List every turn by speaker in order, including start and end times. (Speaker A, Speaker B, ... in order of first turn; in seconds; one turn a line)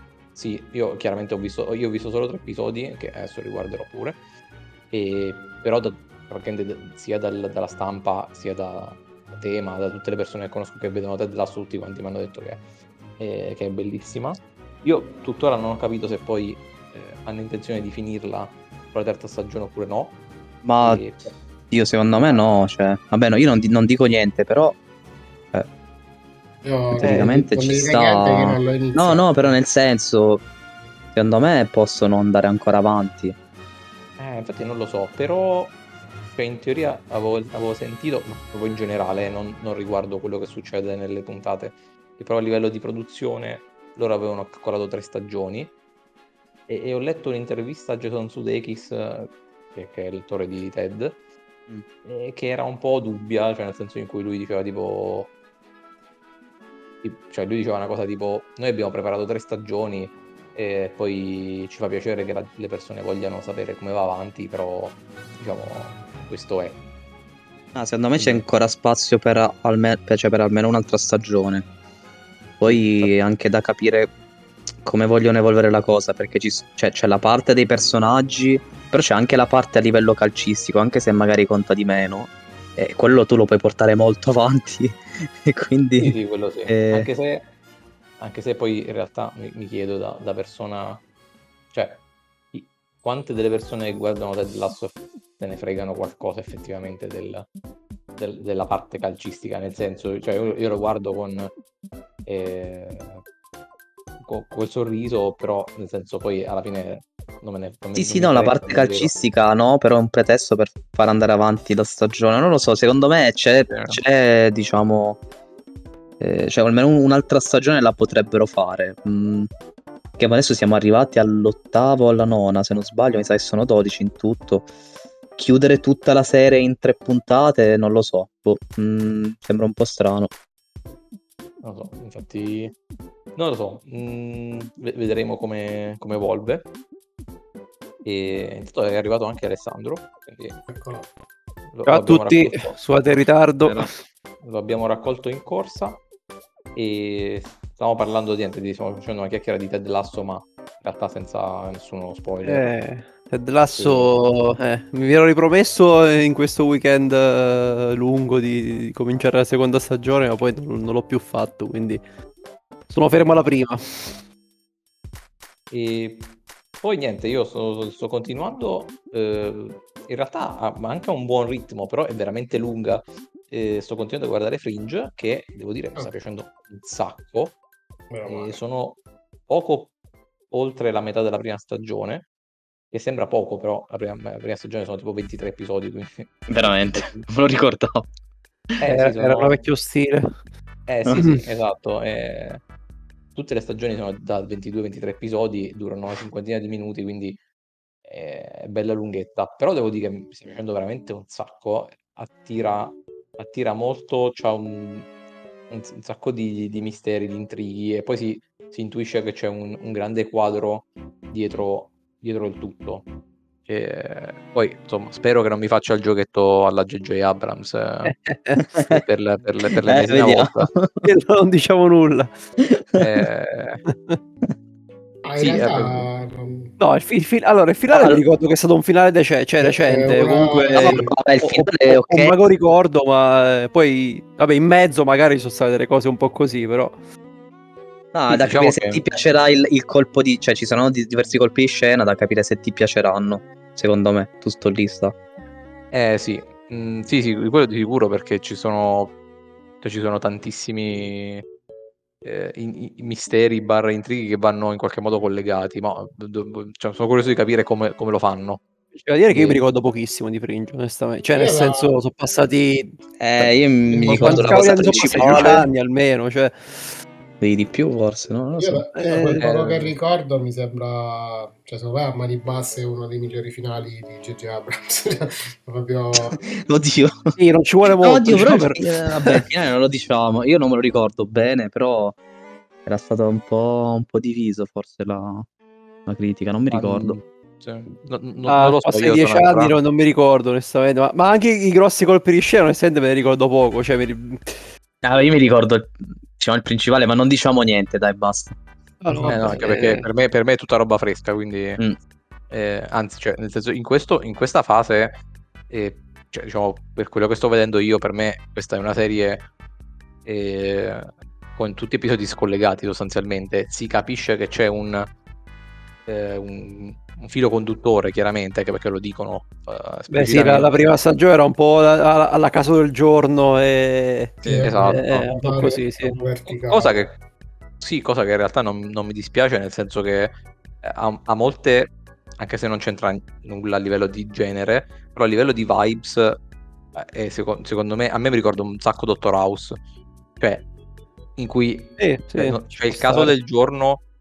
Speaker A: 0.3-4.2
Speaker A: 4.9-12.6
Speaker A: 13.2-20.1
Speaker B: 20.6-21.0
Speaker A: 20.8-21.3
Speaker B: 21.7-24.8
Speaker C: 26.6-29.4
Speaker B: 26.9-30.4
Speaker B: 31.1-33.3
Speaker A: 34.2-35.7
Speaker A: 36.3-45.7
Speaker A: 46.7-51.2
Speaker A: 52.0-55.3
Speaker A: 57.0-66.8
Speaker B: 67.7-71.7
Speaker A: 68.2-68.4
Speaker B: 72.6-74.1
Speaker A: 72.6-73.1
Speaker B: 74.8-87.1
Speaker A: 86.0-87.4
Speaker A: 88.2-91.0
Speaker A: 91.7-97.5
Speaker A: 98.2-101.5
Speaker A: 102.2-103.2
Speaker A: 104.2-109.1
Speaker B: 107.9-115.2
Speaker A: 113.7-114.0
Speaker B: 116.2-119.5
Speaker B: 120.2-124.7
Speaker B: 125.4-130.3
Speaker A: 131.6-132.8
Speaker A: 133.3-136.7
Speaker A: 138.0-140.6
Speaker C: 140.7-141.1
Speaker A: 141.7-142.7
Speaker D: 141.8-144.0
Speaker B: 143.6-143.9
Speaker A: 144.4-146.0
Speaker A: 146.7-152.7
Speaker D: 152.4-162.1
Speaker A: 153.7-154.1
Speaker D: 162.9-164.2
Speaker A: 165.7-177.6
Speaker C: 178.1-178.6
Speaker A: 178.2-179.9
Speaker A: 180.5-182.3
Speaker A: 182.9-187.2
Speaker B: 186.5-188.1
Speaker A: 188.8-189.6
Speaker D: 188.8-190.3
Speaker A: 190.9-192.6
Speaker D: 191.1-191.4
Speaker A: 193.3-197.4
Speaker A: 198.0-205.1
Speaker A: 205.7-213.1
Speaker A: 213.7-218.1
Speaker D: 218.1-218.6
Speaker B: 218.7-219.0
Speaker A: 218.9-220.7
Speaker B: 219.8-221.1
Speaker D: 221.0-222.4
Speaker A: 223.0-223.8
Speaker D: 223.9-224.2
Speaker C: 225.2-226.7
Speaker A: 225.4-226.1
Speaker D: 226.8-237.0
Speaker B: 227.9-228.2
Speaker C: 229.6-231.1
Speaker B: 230.7-232.3
Speaker B: 238.1-245.2
Speaker A: 238.3-239.0
Speaker A: 245.9-249.2
Speaker A: 249.8-251.4
Speaker A: 252.2-258.6
Speaker D: 258.9-263.0
Speaker B: 259.3-259.6
Speaker C: 261.3-262.0
Speaker B: 263.2-265.7
Speaker C: 263.9-264.5
Speaker D: 264.0-267.0
Speaker A: 264.5-265.6
Speaker B: 267.4-268.9
Speaker C: 268.5-276.4
Speaker D: 268.9-269.4
Speaker A: 269.4-269.9
Speaker B: 276.2-277.3
Speaker D: 277.4-279.4
Speaker B: 278.0-282.2
Speaker B: 282.9-285.5
Speaker B: 286.1-287.2
Speaker A: 286.7-289.7
Speaker D: 288.4-294.7
Speaker B: 295.0-298.5
Speaker D: 299.0-300.0
Speaker B: 299.2-299.6
Speaker A: 299.3-301.8
Speaker A: 302.5-305.2
Speaker A: 305.7-309.5
Speaker A: 310.2-315.1
Speaker A: 316.1-320.7
Speaker D: 320.1-326.2
Speaker C: 324.4-327.1
Speaker A: 324.6-325.3
Speaker A: 326.5-327.1
Speaker A: 327.8-336.4
Speaker A: 336.9-339.8
Speaker A: 340.4-340.6
Speaker A: 341.4-344.0
Speaker D: 342.0-343.4